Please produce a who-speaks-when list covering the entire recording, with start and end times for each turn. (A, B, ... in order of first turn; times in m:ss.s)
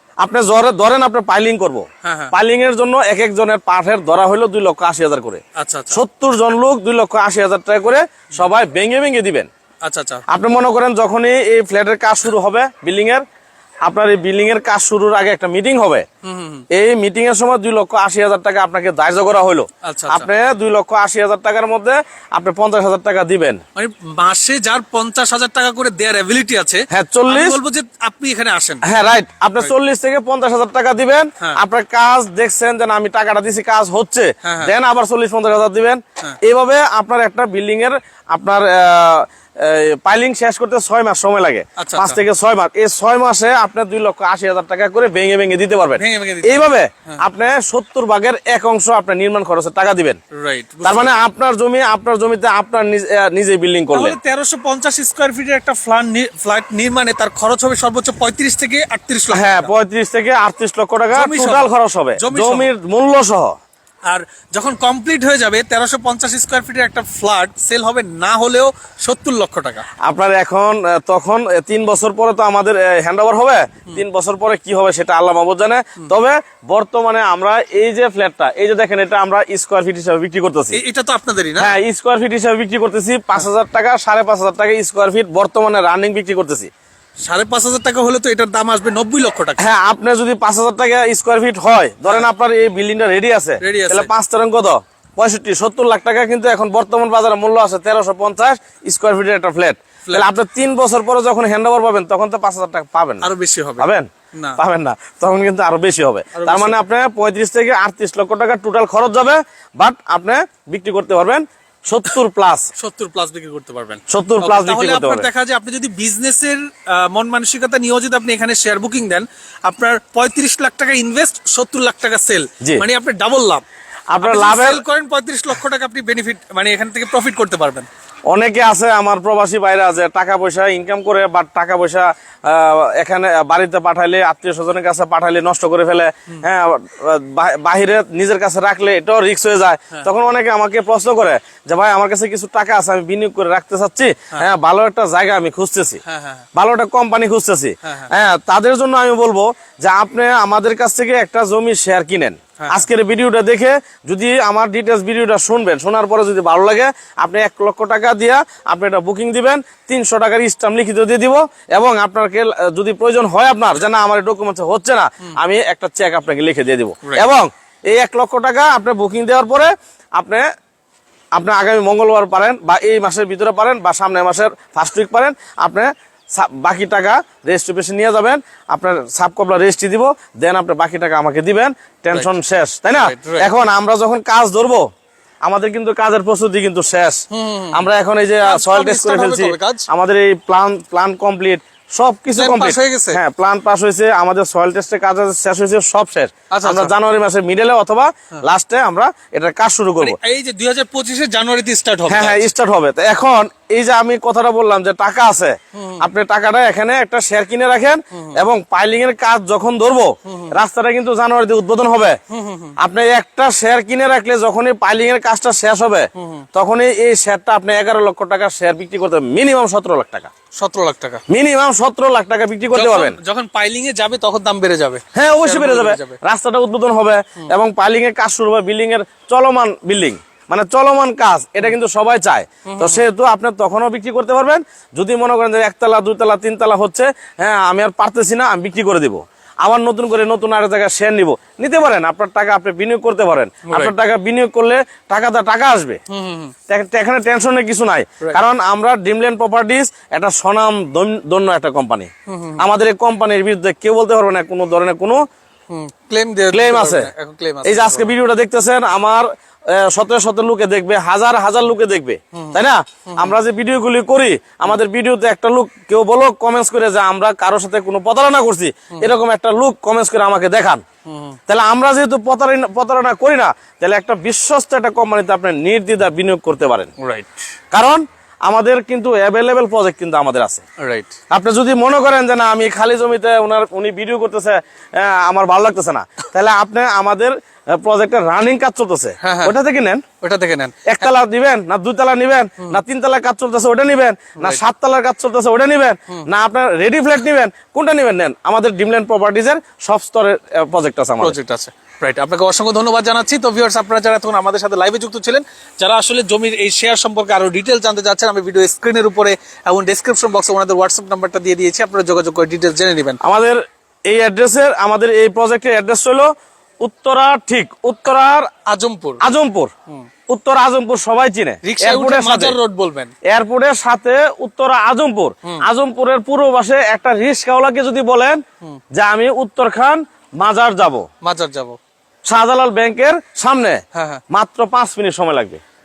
0:00.2-0:09.5 A
0:02.0-0:02.3 B
0:05.6-0:06.0 B
0:09.8-0:10.2 B
0:10.3-0:13.2 A
0:13.8-0:16.0 A
0:16.2-0:16.6 B
0:16.7-0:23.6 A
0:19.8-0:20.3 B
0:23.8-0:28.9 B
0:26.9-0:27.6 A
0:28.8-0:50.2 A
0:34.4-0:34.7 B
0:41.8-0:42.2 B
0:46.0-0:47.2 B
0:50.3-0:51.2 B
0:50.8-0:54.2 A
0:53.9-0:59.7 B
0:59.3-1:03.5 A
1:01.1-1:02.7 B
1:04.0-1:09.8 B
1:10.0-1:20.8 A
1:20.7-1:21.7 B
1:21.6-1:26.7 A
1:27.2-1:29.6 B
1:29.6-1:43.3 A
1:33.6-1:34.1 B
1:40.0-1:40.3 B
1:43.2-1:44.6 B
1:43.8-1:52.7 A
1:46.3-1:46.8 B
1:52.8-2:03.6 B
1:54.1-1:55.3 A
2:04.1-2:04.8 A
2:04.2-2:07.9 B
2:08.3-2:26.0 A
2:26.0-2:26.4 B
2:26.6-2:50.5 A
2:27.8-2:28.1 B
2:32.6-2:32.8 B
2:51.4-3:04.9 A
3:03.0-3:03.5 B
3:05.4-3:20.2 A
3:07.3-3:07.8 B
3:08.4-3:09.8 B
3:12.4-3:13.2 B
3:16.5-3:16.9 B
3:20.0-3:22.5 B
3:22.1-3:32.2 A
3:25.8-3:26.0 B
3:28.1-3:28.4 B
3:30.3-3:30.5 B
3:32.3-3:32.7 B
3:32.8-3:40.3 A
3:36.2-3:36.4 B
3:40.6-3:41.2 B
3:41.3-3:43.2 A
3:42.7-3:46.2 B
3:45.1-4:06.0 A
3:52.7-3:53.0 B
4:03.6-4:03.9 B
4:06.1-4:06.5 B
4:06.7-4:15.2 A
4:12.3-4:12.6 B
4:15.7-4:18.1 B
4:16.5-4:17.1 A
4:17.6-4:30.8 A
4:22.3-4:22.6 B
4:23.1-4:23.4 B
4:31.1-4:31.4 B
4:31.5-4:36.9 A
4:37.0-4:37.4 B
4:37.7-4:40.6 A
4:40.8-4:41.1 B
4:41.3-4:50.0 A
4:49.2-4:49.5 B
4:50.2-4:51.1 B
4:50.8-5:01.4 A
5:01.2-5:13.2 B
5:13.2-5:18.5 A
5:18.7-5:19.2 B
5:19.2-5:19.7 A
5:20.3-5:22.6 A
5:21.6-5:23.1 B
5:23.2-5:28.4 A
5:28.9-5:31.0 A
5:31.2-5:31.8 B
5:32.2-5:35.6 A
5:33.9-5:34.2 B